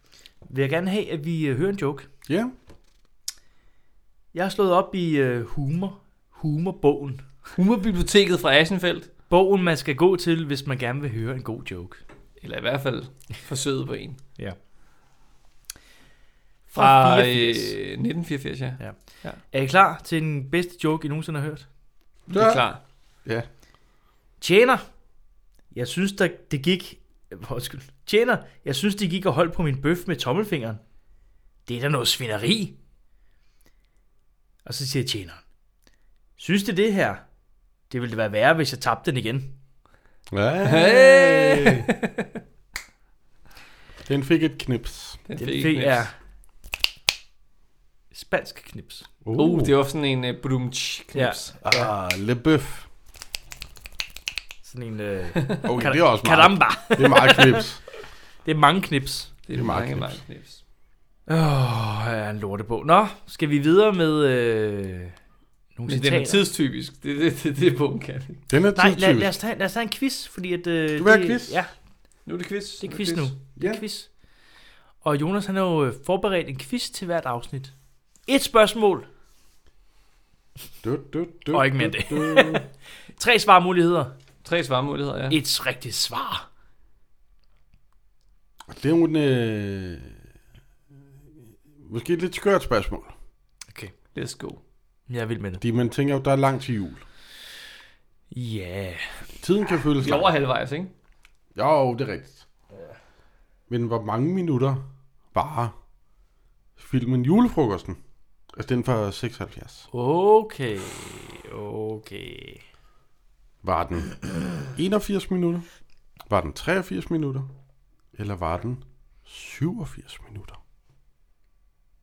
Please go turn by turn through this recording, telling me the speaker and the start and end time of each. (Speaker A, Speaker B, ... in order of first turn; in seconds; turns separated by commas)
Speaker A: 0.5-2.1, Speaker B: 2.3-2.5, Speaker A: 4.3-7.3, Speaker C: 7.5-9.1, Speaker A: 9.3-12.0, Speaker C: 12.4-14.2, Speaker A: 16.7-17.8, Speaker C: 16.8-19.4, Speaker A: 18.8-21.7, Speaker C: 22.3-22.8, Speaker B: 22.3-22.7, Speaker A: 24.4-24.8, Speaker A: 25.7-30.8, Speaker A: 31.7-32.8, Speaker A: 34.6-35.4, Speaker A: 36.4-37.2, Speaker A: 37.9-39.5, Speaker B: 40.3-41.9, Speaker C: 40.6-42.3, Speaker B: 44.1-45.2, Speaker C: 45.2-46.1, Speaker A: 45.4-46.1, Speaker A: 48.1-49.1, Speaker B: 49.2-49.7, Speaker C: 49.4-51.5, Speaker A: 51.1-51.9, Speaker B: 51.6-52.9, Speaker A: 54.6-57.6, Speaker B: 55.6-57.8, Speaker A: 58.5-59.3, Speaker C: 59.5-60.6, Speaker B: 59.5-60.2, Speaker A: 61.3-65.2, Speaker A: 65.8-66.5, Speaker C: 65.9-68.4, Speaker B: 68.5-69.4, Speaker A: 68.8-71.7, Speaker B: 71.0-71.6, Speaker C: 72.3-73.3, Speaker A: 72.8-74.1, Speaker B: 73.6-73.8, Speaker A: 75.0-77.7, Speaker A: 78.3-79.1, Speaker B: 80.8-82.7, Speaker A: 81.5-84.1, Speaker C: 84.4-85.4, Speaker A: 85.3-86.5, Speaker B: 88.7-90.1, Speaker B: 91.8-93.1, Speaker C: 94.2-94.6, Speaker A: 95.1-95.6, Speaker B: 95.6-97.0, Speaker A: 98.3-99.3, Speaker B: 99.4-100.3, Speaker C: 100.0-100.9, Speaker B: 101.5-102.4, Speaker B: 103.7-104.8, Speaker B: 105.3-105.7, Speaker B: 106.8-108.0, Speaker B: 108.5-109.9, Speaker A: 109.9-112.6, Speaker B: 113.6-115.7, Speaker B: 116.3-117.5, Speaker B: 118.2-120.6